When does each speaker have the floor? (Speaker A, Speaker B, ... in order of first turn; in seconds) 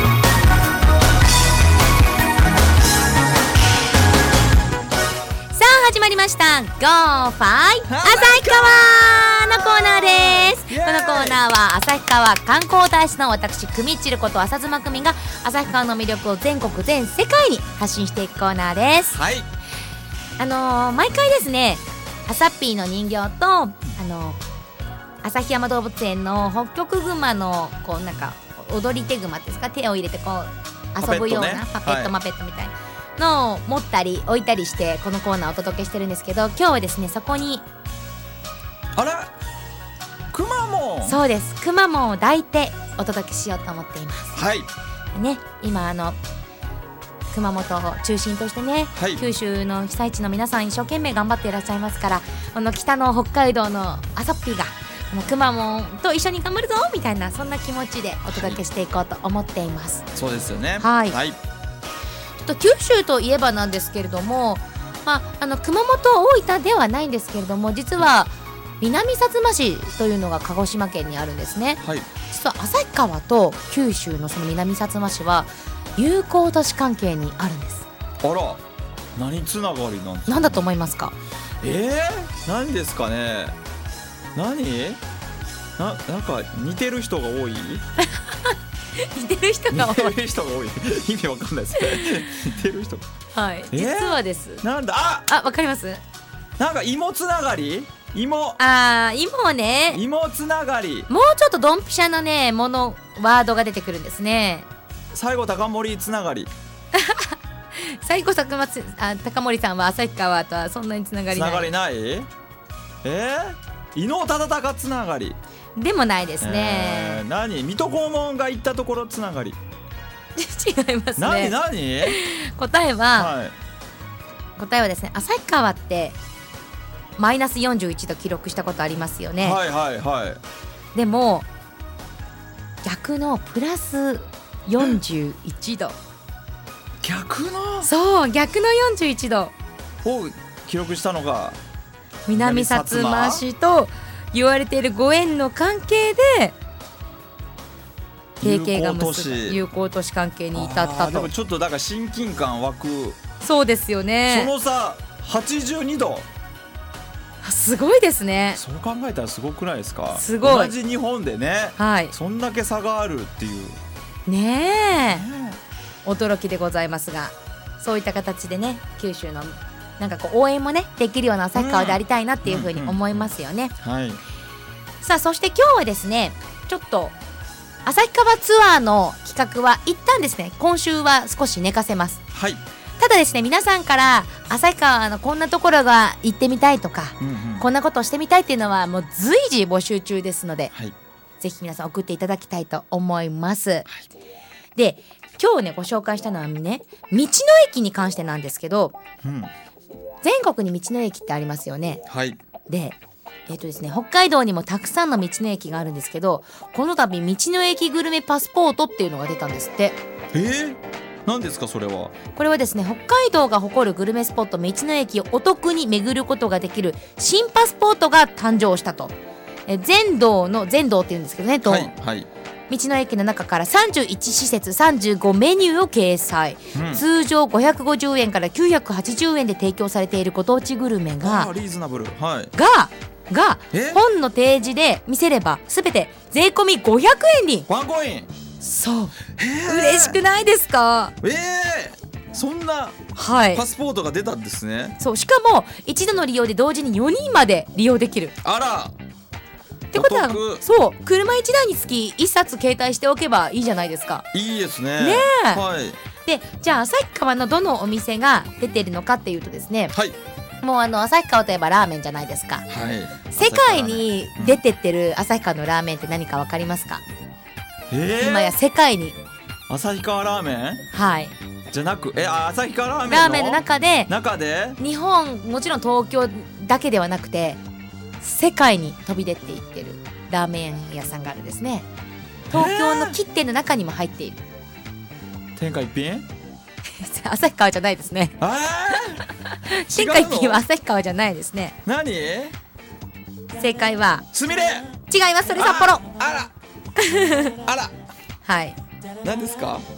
Speaker A: 5.5-19.1, 20.4-24.4, 25.2-37.6, 41.0-44.4, 45.1-46.2, 47.3-60.1, 60.8-61.2, 62.4-77.9, 80.3-81.1, 88.0-90.1, 91.8-92.4, 93.3-94.6, 95.3-96.0, 98.6-100.0, 101.1-104.7, 106.9-111.7, 115.8-117.2, 120.4-123.3, 124.6-126.2, 127.2-129.6, 130.9-131.5, 132.8-135.9, 137.8-139.5, 142.3-146.6, 148.4-151.3, 153.4-154.5, 157.4-158.6, 160.1-160.7, 161.8-162.1, 164.3-165.3, 166.1-173.7, 175.0-177.2, 177.8-182.2, 183.0-190.7, 191.4-193.9, 194.8-199.0, 200.2-202.0, 202.7-210.0, 212.3-219.2, 219.7-221.9, 222.7-231.5, 232.5-237.7, 238.6-241.2, 243.2-243.6, 245.0-248.3, 249.9-254.2, 255.0-255.6, 256.2-259.9, 260.6-262.7, 263.3-267.0, 268.2-269.2, 270.9-271.3, 273.1-274.1, 274.8-277.6, 278.2-281.9, 282.5-284.4, 287.0-288.4, 289.6-291.8, 293.6-294.2, 295.1-296.0, 297.0-297.6, 298.4-298.8
Speaker B: 7.9-11.4, 19.1-19.5, 31.0-32.1, 39.0-39.3, 40.3-41.2, 44.4-44.7, 49.0-49.2, 58.3-58.6, 60.1-61.4, 71.8-72.1, 78.2-78.6, 79.2-80.6, 81.6-83.5, 84.3-85.0, 85.8-87.8, 89.7-93.0, 93.7-95.3, 96.6-98.6, 99.9-101.1, 105.1-106.5, 111.3-112.3, 113.0-115.4, 116.4-119.6, 121.2-122.2, 123.2-123.5, 129.4-130.4, 137.0-137.9, 140.0-141.6, 142.3-143.4, 148.4-149.6, 150.5-153.2, 154.3-156.3, 158.6-163.8, 165.0-165.6, 171.6-174.2, 182.3-182.6, 187.2-187.7, 199.2-199.5, 202.1-202.4, 210.3-212.1, 221.7-222.3, 226.7-227.0, 231.2-232.5, 233.7-234.0, 237.7-238.3, 239.4-240.2, 241.2-243.0, 243.5-245.0, 248.4-248.9, 249.9-250.6, 254.3-256.0, 262.7-264.6, 267.9-268.5, 269.7-270.8, 271.7-274.8, 282.5-283.2, 285.6-286.3, 288.4-289.3, 289.9-290.6, 291.9-292.5, 294.3-294.9, 295.5-296.5, 297.6-297.9, 299.2-299.9